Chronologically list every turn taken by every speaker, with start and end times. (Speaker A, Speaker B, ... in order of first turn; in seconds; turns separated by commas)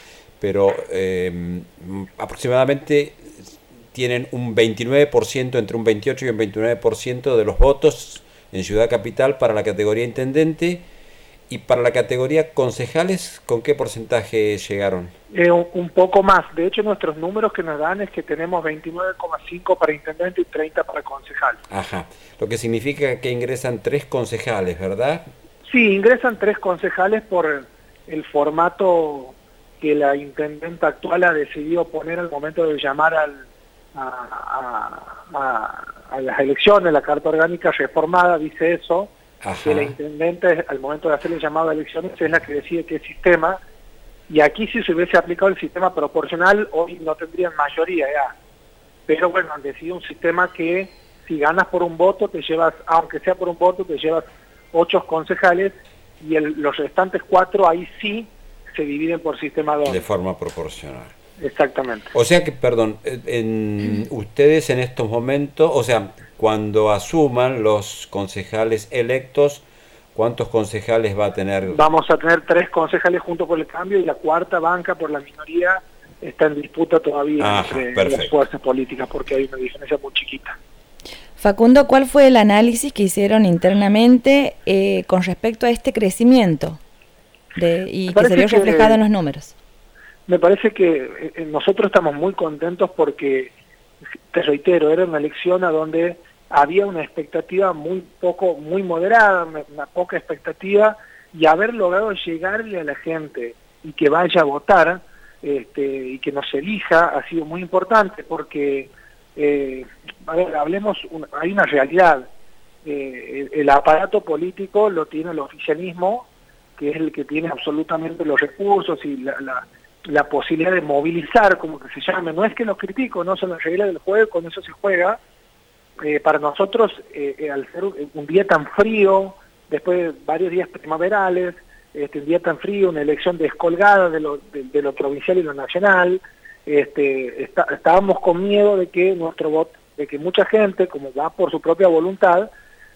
Speaker A: 0.4-10.8, Speaker A: 11.5-15.1, Speaker B: 15.3-21.6, Speaker A: 21.7-25.3, Speaker B: 25.6-39.1, Speaker A: 39.4-39.9, Speaker B: 39.6-43.6, Speaker B: 44.3-48.3, Speaker B: 49.1-60.0, Speaker A: 59.9-61.1, Speaker B: 61.4-62.1, Speaker A: 62.1-71.8, Speaker B: 71.7-80.6, Speaker A: 77.4-78.4, Speaker C: 81.4-86.8, Speaker C: 87.5-89.5, Speaker B: 88.1-89.0, Speaker B: 90.3-93.5, Speaker B: 94.3-112.3, Speaker B: 112.8-125.2, Speaker B: 126.0-142.5